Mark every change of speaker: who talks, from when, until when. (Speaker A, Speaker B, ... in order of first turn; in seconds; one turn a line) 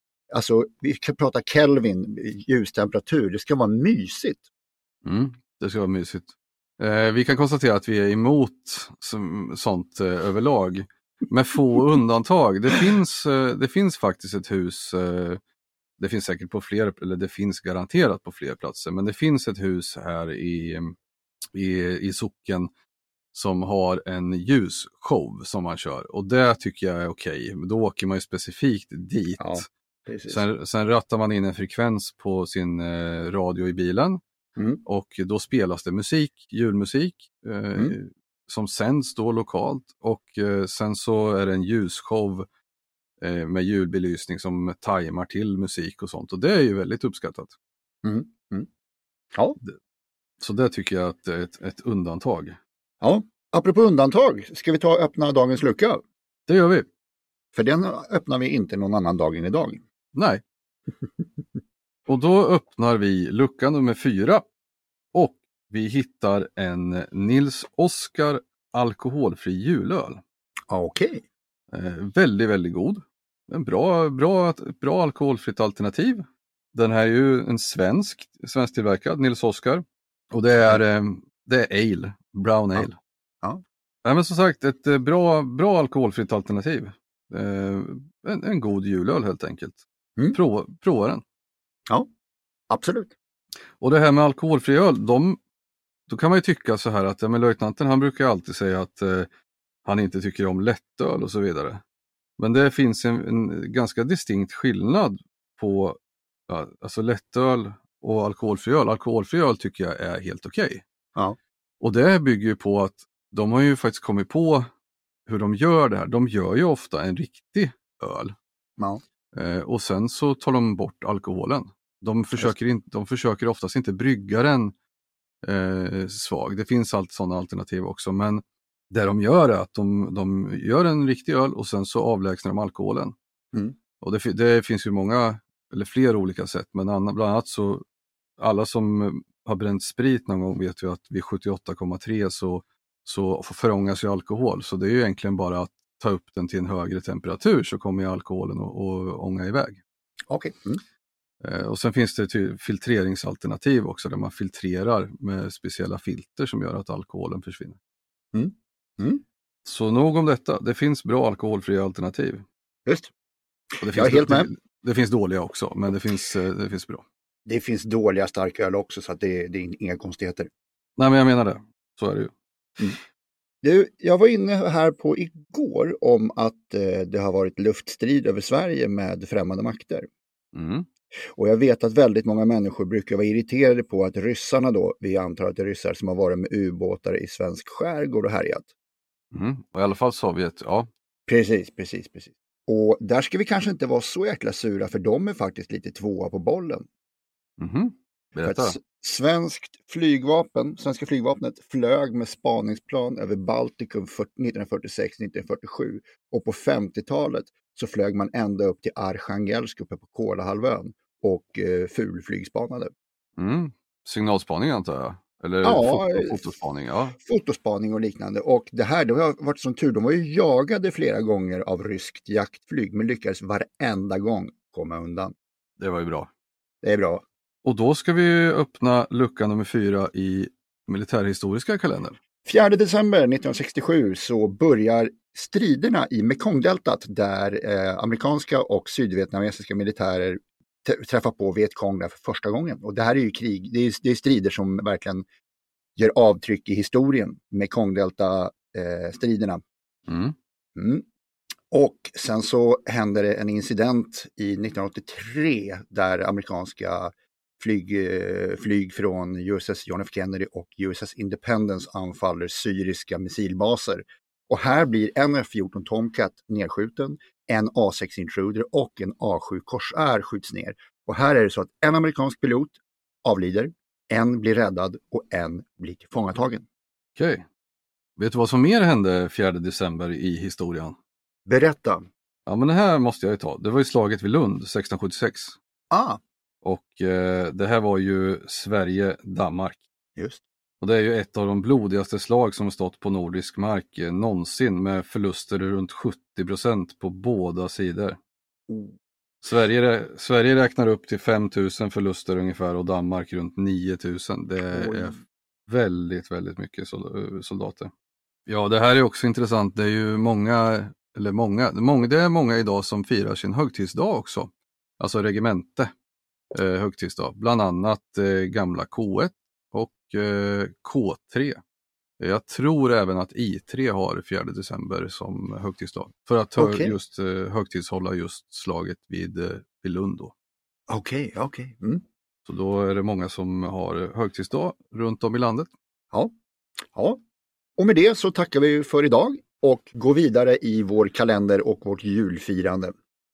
Speaker A: 0.3-4.5
Speaker B: 5.0-15.4
Speaker B: 16.0-20.9
Speaker B: 21.5-22.7
Speaker B: 23.3-29.7
Speaker A: 29.4-30.4
Speaker B: 30.3-34.2
Speaker A: 34.6-34.8
Speaker B: 34.8-42.4
Speaker B: 43.2-47.5
Speaker A: 48.0-48.7
Speaker B: 50.4-52.6
Speaker A: 53.0-56.0
Speaker B: 56.5-56.9
Speaker A: 57.5-59.8
Speaker B: 60.1-60.4
Speaker B: 62.1-64.5
Speaker B: 65.1-70.2
Speaker A: 70.7-71.2
Speaker B: 71.7-83.0
Speaker B: 84.0-89.8
Speaker B: 90.3-91.2
Speaker A: 92.7-93.1
Speaker B: 93.8-95.4
Speaker B: 96.1-99.3
Speaker B: 99.8-101.8
Speaker B: 102.4-106.0
Speaker B: 106.5-110.8
Speaker B: 111.8-114.7
Speaker B: 115.3-118.3
Speaker B: 119.3-124.7
Speaker B: 125.4-133.2
Speaker B: 134.0-137.8
Speaker B: 138.4-149.8
Speaker A: 150.3-150.8
Speaker B: 151.4-157.8
Speaker A: 158.3-159.2
Speaker B: 159.6-162.4
Speaker A: 162.8-163.1
Speaker B: 163.8-167.0
Speaker A: 163.9-164.5
Speaker A: 167.4-170.5
Speaker B: 171.0-172.3
Speaker A: 173.6-180.1
Speaker B: 180.5-180.8
Speaker A: 181.3-188.7
Speaker B: 189.3-190.9
Speaker A: 191.3-196.8
Speaker B: 197.6-198.7
Speaker A: 198.4-212.9
Speaker B: 213.4-217.2
Speaker A: 215.6-216.4
Speaker A: 217.2-225.3
Speaker B: 225.8-226.3
Speaker A: 226.8-227.2
Speaker B: 227.6-232.2
Speaker A: 232.4-245.2
Speaker A: 246.0-249.6
Speaker B: 250.1-250.3
Speaker A: 250.8-251.0
Speaker A: 251.7-276.6
Speaker B: 277.1-277.4
Speaker B: 278.2-280.9
Speaker A: 281.5-282.1
Speaker B: 282.4-285.6
Speaker A: 285.9-286.2
Speaker B: 286.6-289.8
Speaker A: 290.1-290.4
Speaker B: 290.8-298.2
Speaker A: 298.7-298.9
Speaker B: 299.4-307.9
Speaker A: 304.7-305.2
Speaker B: 308.5-315.9
Speaker B: 316.5-321.6
Speaker B: 322.2-330.3
Speaker A: 326.6-326.9
Speaker A: 330.9-332.0
Speaker B: 332.4-335.7
Speaker A: 336.9-337.2
Speaker A: 337.8-342.9